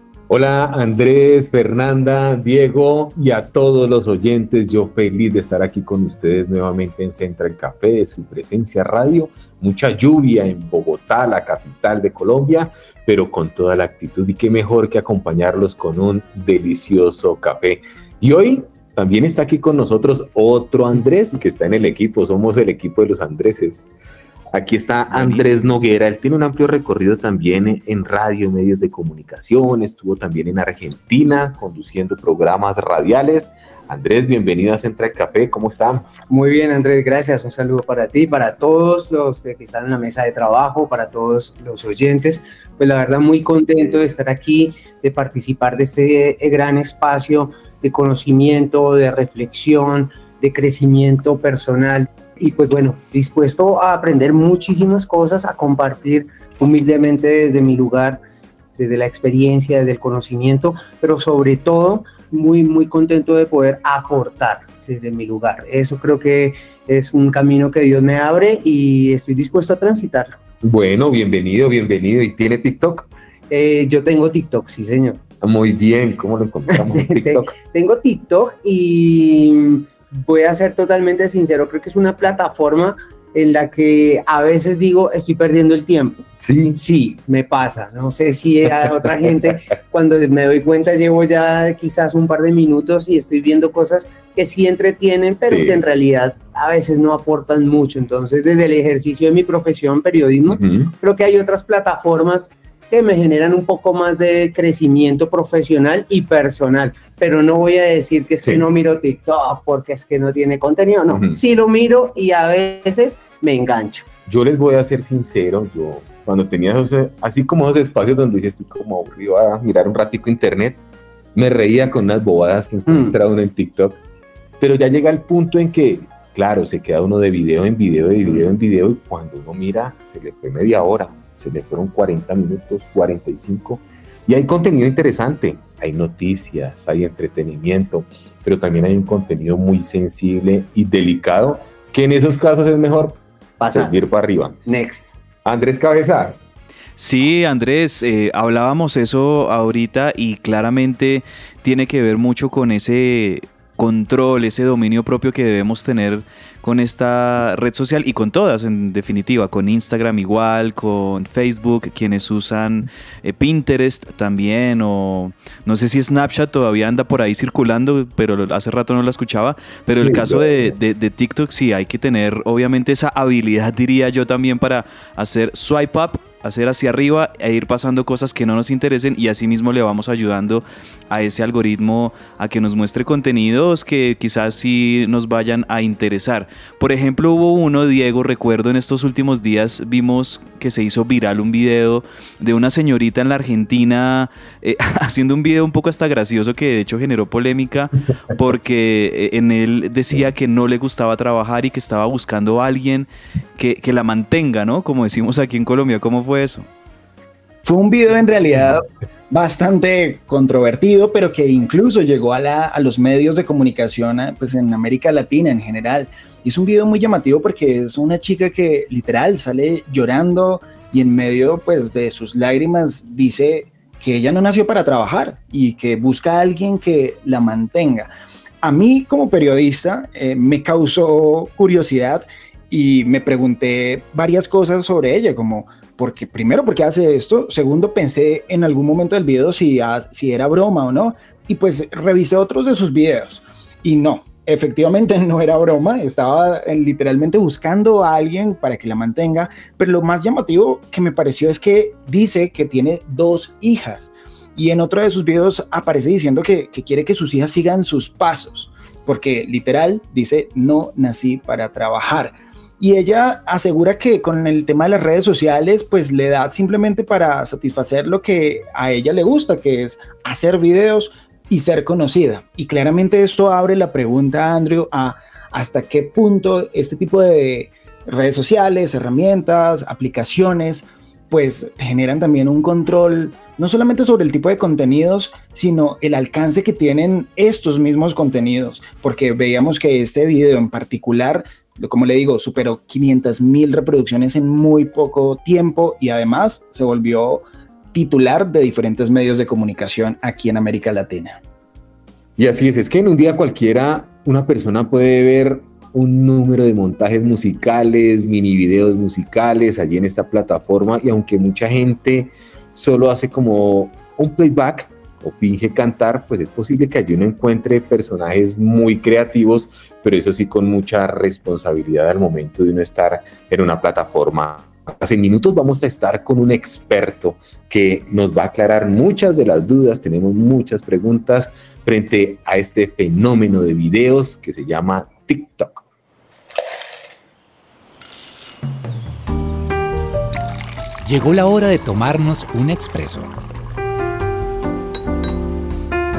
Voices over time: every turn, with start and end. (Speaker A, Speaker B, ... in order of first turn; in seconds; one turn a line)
Speaker A: 0.3-23.9
Speaker A: 24.5-36.1
Speaker B: 36.3-58.2
Speaker B: 58.8-70.4
Speaker A: 70.6-73.1
Speaker B: 73.5-75.2
Speaker A: 75.4-77.5
Speaker B: 76.7-86.2
Speaker A: 86.4-86.8
Speaker B: 86.7-114.1
Speaker A: 95.5-95.8
Speaker A: 100.5-100.9
Speaker A: 111.1-111.4
Speaker A: 114.3-120.8
Speaker A: 121.3-124.0
Speaker B: 122.9-123.1
Speaker A: 124.6-143.2
Speaker B: 143.6-144.0
Speaker A: 143.7-144.6
Speaker B: 144.7-145.1
Speaker A: 145.4-146.4
Speaker C: 147.0-206.7
Speaker A: 170.0-170.7
Speaker D: 207.6-228.1
Speaker D: 228.6-301.4
Speaker A: 302.4-335.8
Speaker E: 341.0-343.3